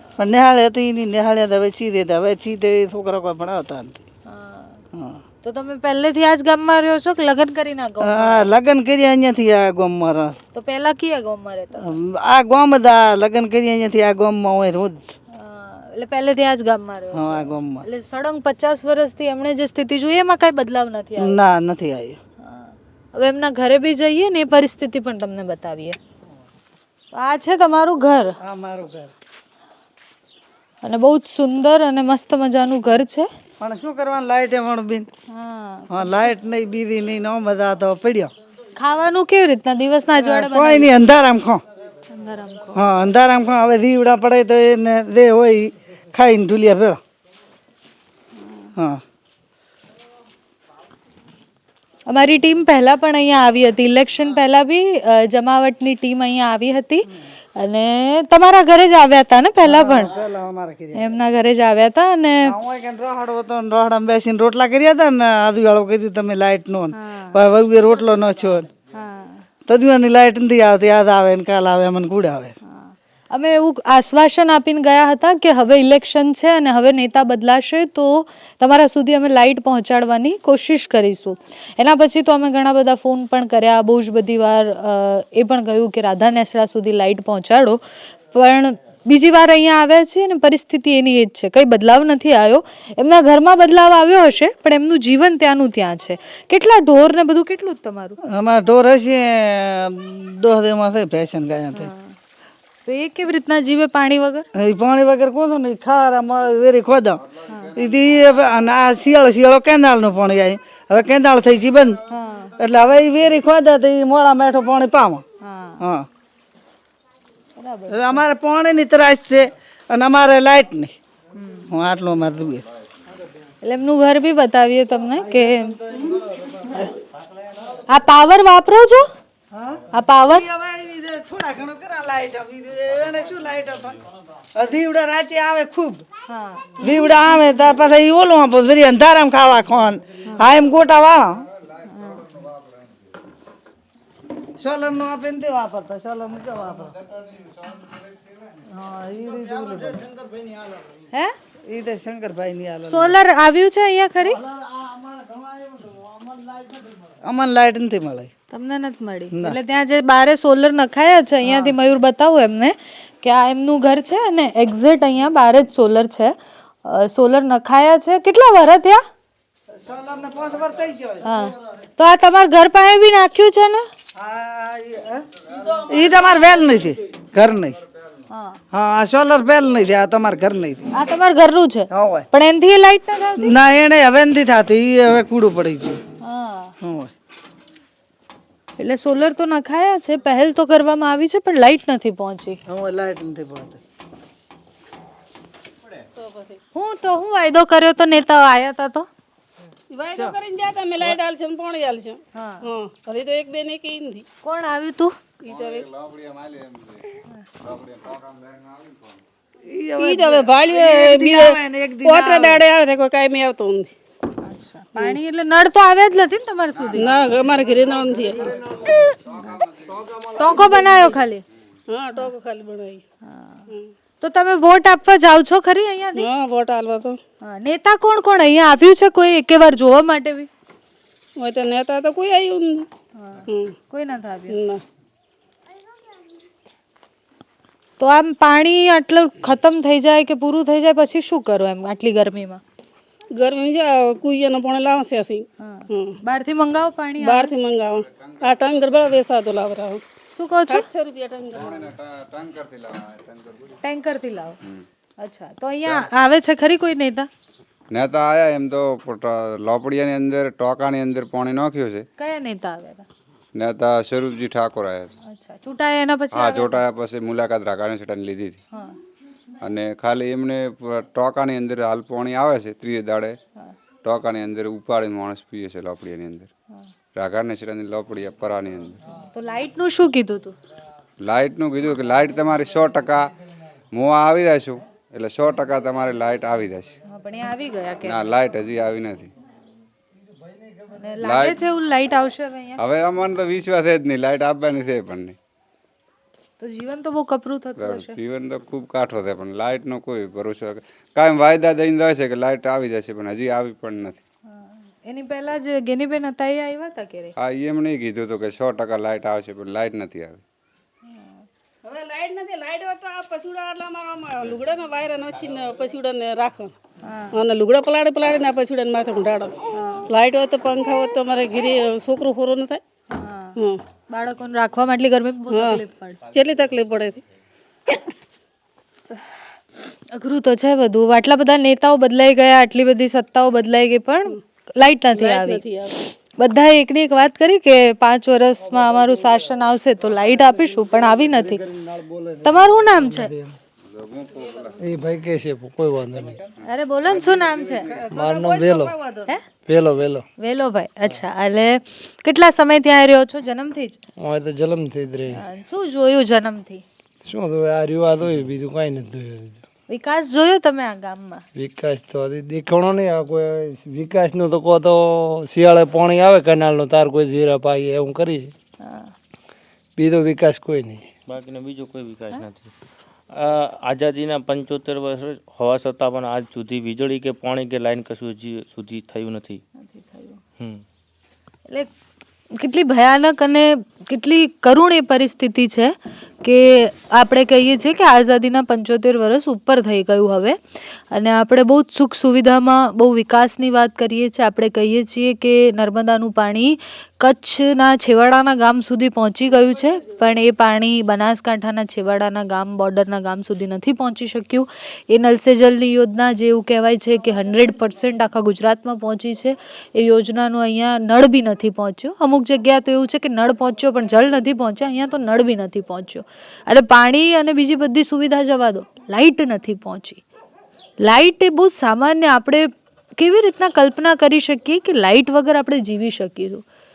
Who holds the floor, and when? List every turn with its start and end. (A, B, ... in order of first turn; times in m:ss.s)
0:00.2-0:04.0 A
0:04.3-0:04.8 B
0:04.9-0:05.2 A
0:05.4-0:08.5 B
0:08.0-0:10.4 A
0:10.5-0:11.8 B
0:11.8-0:15.0 A
0:15.3-0:21.4 B
0:17.2-0:17.8 A
0:21.2-0:22.2 A
0:22.4-0:26.0 B
0:27.1-0:28.3 B
0:28.4-0:29.1 A
0:30.8-0:33.3 B
0:33.6-0:35.1 A
0:35.3-0:36.1 B
0:35.9-0:38.3 A
0:38.8-0:40.9 B
0:40.2-0:41.6 A
0:42.1-0:42.8 B
0:42.7-0:47.0 A
0:48.4-0:48.7 B
0:48.8-0:49.0 A
0:52.1-1:00.1 B
0:59.6-1:01.1 A
1:00.9-1:02.5 B
1:02.4-1:08.7 A
1:06.9-1:07.4 B
1:08.9-1:09.4 B
1:09.7-1:12.5 A
1:12.7-1:27.8 B
1:28.3-1:38.2 B
1:38.3-1:41.9 A
1:41.8-1:42.1 B
1:42.8-1:44.4 B
1:44.6-1:47.2 A
1:47.5-1:47.7 B
1:47.7-1:52.0 A
1:52.1-1:52.5 B
1:52.6-1:55.2 A
1:55.4-1:55.8 B
1:55.8-1:56.1 A
1:57.6-1:58.1 B
1:57.9-2:00.9 A
2:01.4-2:01.7 B
2:01.7-2:02.6 A
2:03.6-2:05.8 B
2:07.9-2:09.1 B
2:09.5-2:14.0 A
2:09.9-2:10.4 B
2:14.5-2:16.0 A
2:16.3-2:16.8 B
2:16.8-2:21.4 A
2:21.9-2:22.2 B
2:24.6-2:27.0 A
2:28.7-2:30.2 A
2:31.7-2:33.1 A
2:32.9-2:34.4 B
2:37.2-2:38.3 A
2:38.5-2:46.3 B
2:41.4-2:41.7 A
2:46.8-2:49.0 B
2:49.7-2:51.3 A
2:51.2-2:53.9 B
2:54.1-2:57.8 A
2:58.3-2:58.6 B
2:58.7-3:00.9 A
3:00.9-3:03.5 B
3:01.9-3:02.3 A
3:03.4-3:06.0 A
3:06.2-3:06.7 B
3:06.8-3:07.1 A
3:08.8-3:12.6 B
3:12.7-3:13.8 A
3:16.2-3:16.6 C
3:16.7-3:19.1 B
3:19.9-3:24.2 C
3:22.3-3:22.7 B
3:24.4-3:25.1 B
3:25.4-3:25.9 C
3:25.8-3:27.0 D
3:27.6-3:28.7 D
3:29.6-3:32.6 A
3:30.0-3:33.9 C
3:34.4-3:37.2 B
3:37.0-3:38.5 C
3:40.3-3:41.4 B
3:41.9-3:43.0 C
3:43.2-3:43.7 B
3:44.2-3:46.3 B
3:46.2-3:47.2 C
3:47.4-3:50.5 B
3:51.4-3:52.9 C
3:53.2-3:54.6 B
3:54.5-3:54.8 C
3:58.0-4:02.6 B
4:03.4-4:06.2 C
4:05.6-4:07.5 B
4:07.2-4:10.0 C
4:10.3-4:10.9 B
4:10.7-4:11.8 C
4:11.6-4:13.6 D
4:13.8-4:14.6 B
4:15.2-4:17.3 B
4:17.9-4:22.0 D
4:22.2-4:23.0 B
4:23.5-4:25.1 D
4:25.2-4:26.8 B
4:26.3-4:28.6 D
4:29.6-4:33.4 D
4:34.0-4:36.5 D
4:37.1-4:39.0 D
4:39.3-4:40.5 B
4:41.2-4:43.3 D
4:43.9-4:46.9 D
4:47.1-4:48.4 B
4:48.0-4:49.3 D
4:50.9-4:52.8 B
4:51.2-4:51.6 D
4:52.8-4:55.4 D
4:56.6-4:58.2 B
4:57.8-5:04.2 D
5:04.5-5:07.3 B
5:07.4-5:10.4 D
5:11.1-5:11.4 B
5:11.8-5:16.7 C
5:17.0-5:17.4 B
5:17.4-5:19.5 C
5:19.8-5:20.1 B
5:20.1-5:22.8 C
5:23.1-5:23.6 B
5:24.1-5:26.2 B
5:25.5-5:25.8 C
5:26.3-5:27.2 C
5:30.1-5:35.6 B
5:35.1-5:35.9 C
5:36.4-5:41.6 B
5:41.2-5:43.6 E
5:42.4-5:43.3 B
5:43.8-5:44.7 D
5:44.8-5:46.4 E
5:46.6-5:47.9 B
5:47.2-5:49.4 A
5:48.1-5:48.9 E
5:49.6-5:50.2 E
5:50.4-5:54.0 B
5:54.2-5:55.4 E
5:55.3-5:56.8 B
5:57.2-5:59.6 E
5:58.2-5:58.5 F
5:59.9-6:01.4 B
6:01.5-6:08.5 E
6:08.8-6:09.1 B
6:10.0-6:11.1 E
6:11.3-6:12.7 F
6:13.3-6:19.6 F
6:19.8-6:20.4 B
6:22.5-6:30.6 B
6:31.1-7:00.2 B
7:01.0-7:06.6 B